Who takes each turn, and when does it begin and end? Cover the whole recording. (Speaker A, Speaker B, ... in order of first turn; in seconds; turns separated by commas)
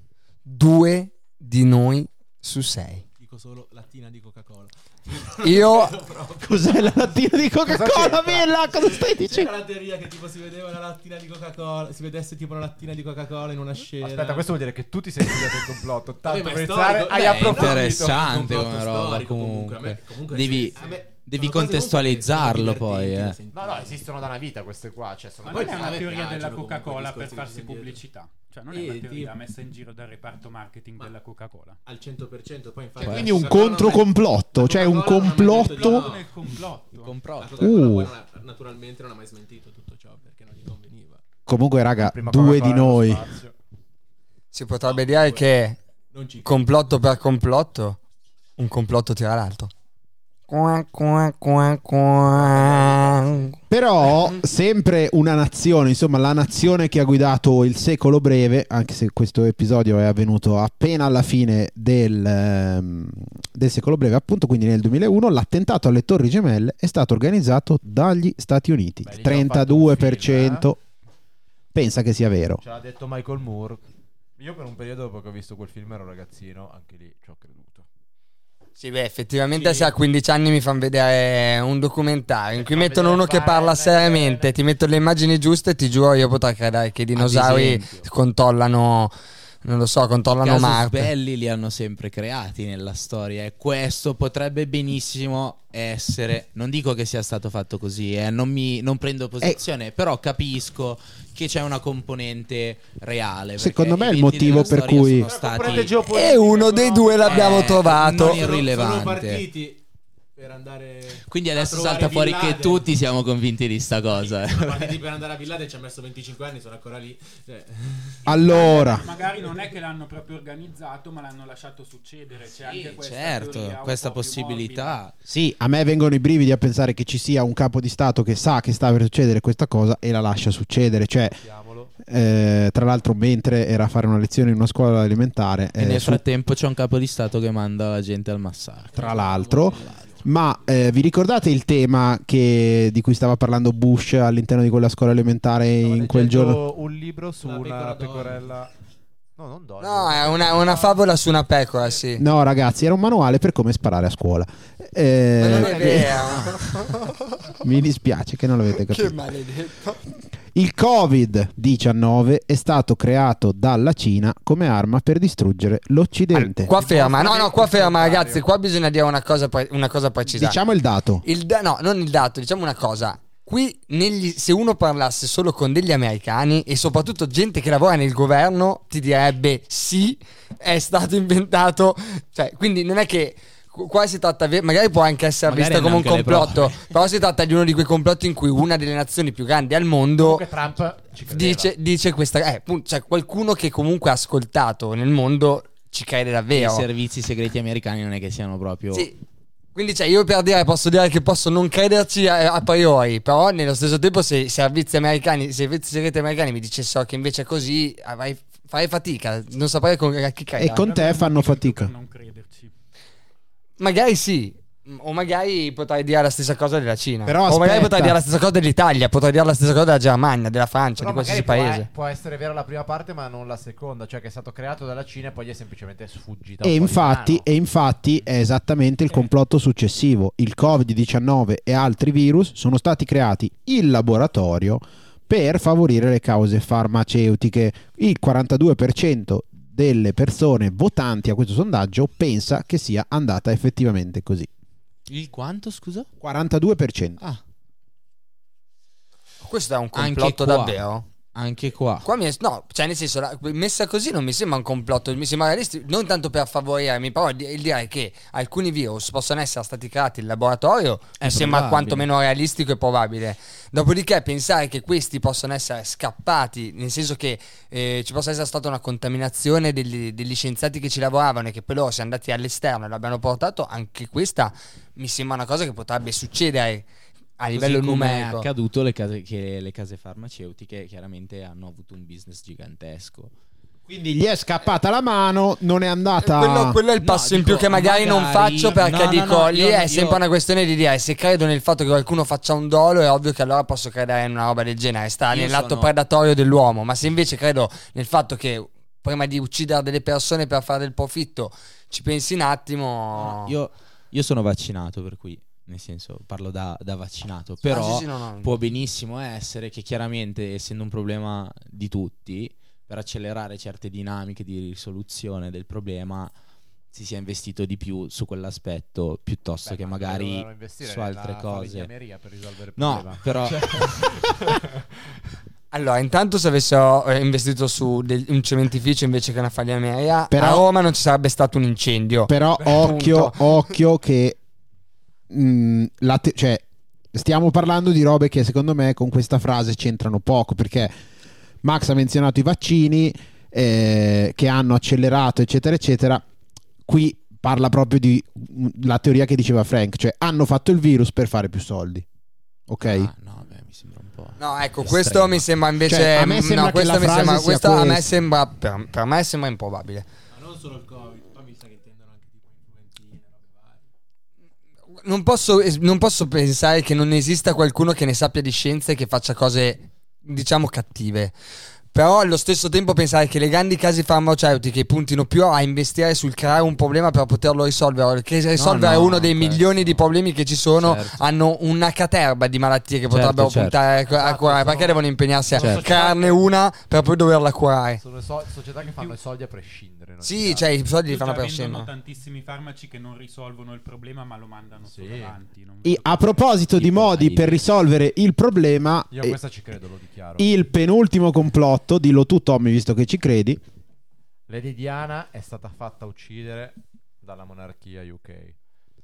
Speaker A: 0.5-3.0, Speaker B: 3.2-7.3, Speaker A: 5.4-5.9, Speaker C: 6.4-9.5, Speaker D: 7.7-8.5, Speaker B: 8.7-14.6, Speaker D: 14.0-18.3, Speaker B: 16.2-24.1, Speaker E: 17.1-23.4, Speaker D: 23.5-26.2, Speaker F: 25.4-31.8, Speaker B: 25.4-28.0, Speaker B: 28.7-29.4, Speaker B: 31.8-36.4, Speaker E: 33.0-33.6, Speaker C: 33.0-36.0, Speaker F: 35.4-37.1, Speaker E: 37.0-37.7, Speaker B: 37.4-41.2, Speaker C: 37.6-38.1, Speaker C: 41.5-43.3, Speaker D: 42.0-43.5, Speaker A: 44.5-45.8, Speaker B: 44.8-45.5, Speaker B: 46.1-46.7, Speaker A: 46.4-48.0, Speaker A: 48.6-49.7, Speaker A: 50.5-53.5, Speaker D: 52.7-53.0, Speaker C: 53.7-70.8, Speaker D: 69.0-70.7, Speaker C: 71.7-72.6, Speaker D: 72.6-73.8, Speaker D: 74.4-77.9, Speaker A: 78.8-91.1, Speaker B: 79.6-79.9, Speaker D: 82.5-84.5, Speaker E: 87.1-88.1, Speaker E: 90.4-106.0, Speaker C: 103.6-105.3, Speaker B: 104.6-109.8, Speaker D: 105.5-106.4, Speaker A: 106.1-108.5, Speaker E: 107.2-109.5, Speaker B: 110.3-112.9, Speaker E: 111.2-115.0, Speaker B: 114.1-119.7, Speaker C: 118.2-119.1, Speaker F: 118.3-125.0, Speaker E: 122.6-125.1, Speaker C: 125.3-131.4, Speaker D: 131.2-131.9, Speaker C: 132.0-136.2, Speaker E: 135.8-138.9, Speaker B: 138.9-140.7, Speaker C: 138.9-146.6, Speaker D: 145.8-148.7, Speaker B: 147.4-148.6, Speaker D: 149.3-151.0, Speaker A: 149.8-152.2, Speaker C: 152.2-156.6, Speaker A: 155.4-157.5, Speaker C: 157.6-159.2, Speaker A: 158.8-160.0, Speaker C: 160.5-166.7, Speaker A: 166.3-170.6, Speaker D: 166.7-168.4, Speaker C: 170.3-171.2, Speaker A: 171.2-190.4, Speaker E: 185.4-186.9, Speaker D: 190.2-191.7, Speaker A: 191.3-196.8, Speaker E: 196.5-199.1, Speaker A: 199.7-210.8, Speaker C: 210.6-211.9, Speaker F: 210.7-212.7, Speaker A: 213.8-221.9, Speaker C: 217.2-218.2, Speaker D: 221.0-227.4, Speaker C: 226.6-244.5, Speaker E: 245.1-246.1, Speaker C: 246.2-247.2, Speaker A: 249.4-251.1, Speaker E: 249.9-250.8, Speaker E: 251.3-252.1, Speaker A: 252.0-276.8, Speaker E: 261.2-262.1, Speaker A: 277.4-278.5, Speaker E: 277.5-283.3, Speaker C: 283.9-286.8, Speaker A: 286.2-303.5, Speaker E: 287.0-290.2, Speaker E: 295.3-295.9, Speaker E: 303.1-316.3, Speaker A: 307.6-308.5, Speaker E: 316.9-321.9, Speaker D: 319.6-324.8, Speaker E: 322.8-324.0, Speaker A: 325.7-333.6, Speaker C: 330.3-330.7, Speaker C: 332.3-334.4, Speaker C: 335.3-340.9, Speaker C: 341.6-346.2, Speaker C: 346.9-352.0, Speaker C: 352.7-353.1, Speaker E: 352.8-355.4, Speaker A: 354.4-360.1, Speaker C: 355.9-358.1, Speaker B: 360.3-363.9, Speaker A: 365.0-371.3, Speaker A: 371.9-388.0, Speaker E: 378.6-380.1, Speaker E: 380.8-381.2, Speaker E: 383.1-383.8, Speaker D: 384.0-386.5, Speaker E: 385.6-385.8, Speaker D: 388.0-390.8, Speaker A: 390.2-391.9, Speaker F: 391.0-396.6, Speaker D: 394.9-395.3, Speaker C: 395.8-399.4, Speaker E: 396.7-397.7, Speaker D: 399.1-400.5, Speaker C: 400.4-403.6, Speaker D: 404.5-408.6